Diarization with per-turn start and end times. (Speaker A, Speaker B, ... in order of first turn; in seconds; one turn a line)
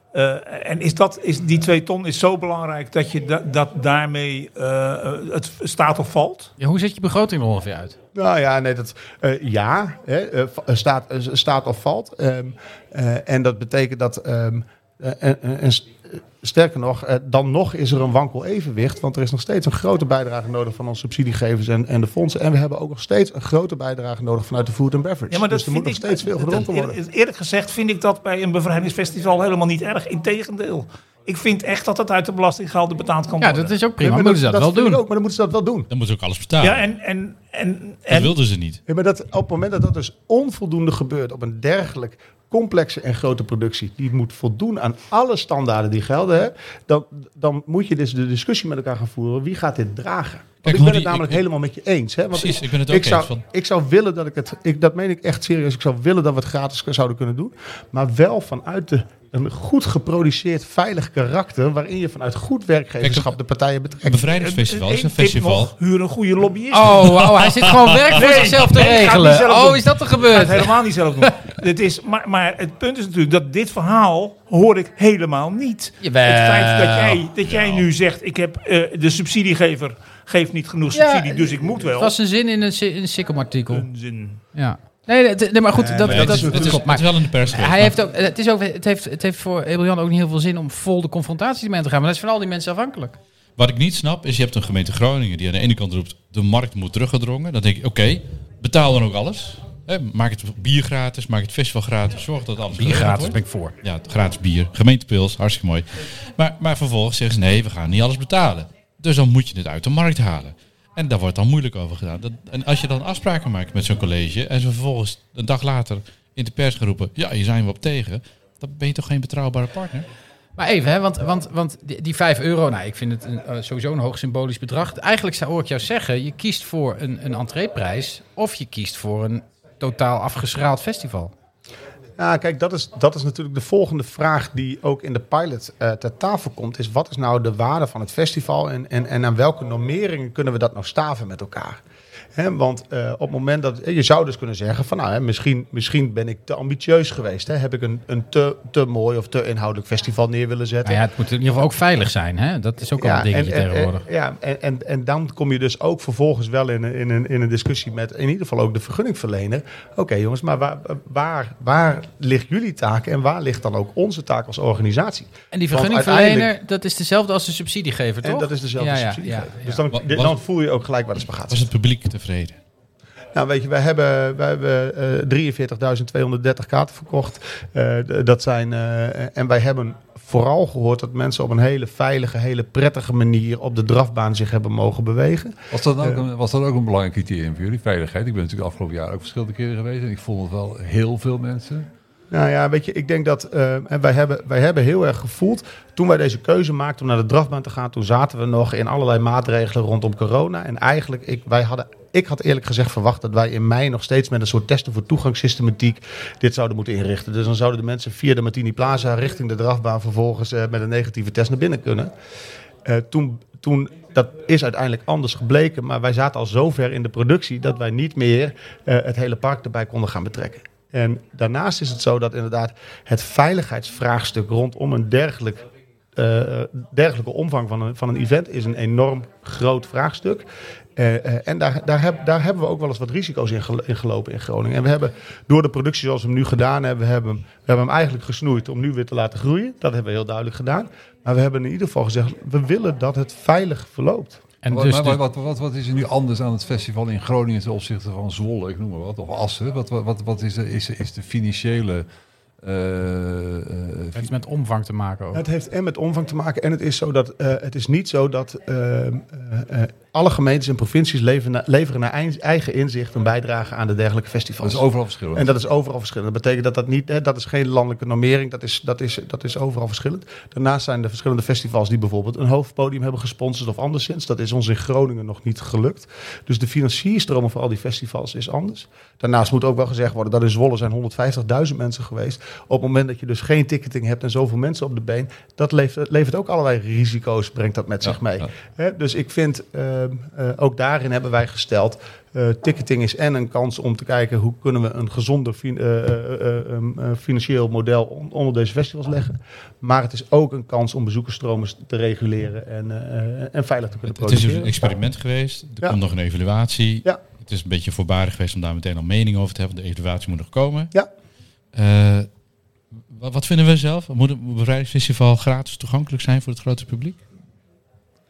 Speaker A: 0.1-6.5
Speaker B: 6.6-8.0
Speaker C: 8.2-27.0
Speaker A: 25.3-33.8
Speaker B: 33.4-35.0
Speaker C: 34.0-35.9
Speaker D: 35.9-36.8
Speaker A: 36.6-38.4
Speaker D: 38.1-38.8
Speaker C: 38.9-64.3
Speaker D: 50.6-51.4
Speaker D: 52.3-53.4
Speaker D: 63.0-63.4
Speaker D: 64.0-65.7
Speaker A: 64.4-67.1
Speaker B: 66.7-71.4
Speaker A: 68.1-82.2
Speaker B: 76.0-77.2
Speaker D: 77.5-77.9
Speaker B: 80.9-83.9
Speaker A: 83.7-84.4
Speaker B: 84.5-93.2
Speaker C: 85.7-86.9
Speaker D: 86.0-88.0
Speaker D: 93.6-120.1
Speaker B: 102.7-103.7
Speaker B: 120.6-131.3
Speaker C: 132.2-141.8
Speaker C: 142.4-151.0
Speaker B: 150.8-154.0
Speaker C: 153.0-166.5
Speaker B: 165.5-169.8
Speaker C: 168.2-171.7
Speaker D: 169.9-170.4
Speaker D: 171.5-172.6
Speaker C: 173.3-186.2
Speaker E: 185.7-191.9
Speaker C: 192.3-212.1
Speaker C: 212.8-244.4
Speaker B: 244.6-245.2
Speaker E: 244.7-252.1
Speaker E: 252.6-254.3
Speaker B: 254.1-255.4
Speaker C: 255.3-305.0
Speaker E: 264.6-265.5
Speaker E: 288.0-288.5
Speaker D: 304.1-310.9
Speaker D: 311.7-312.3
Speaker D: 313.1-317.2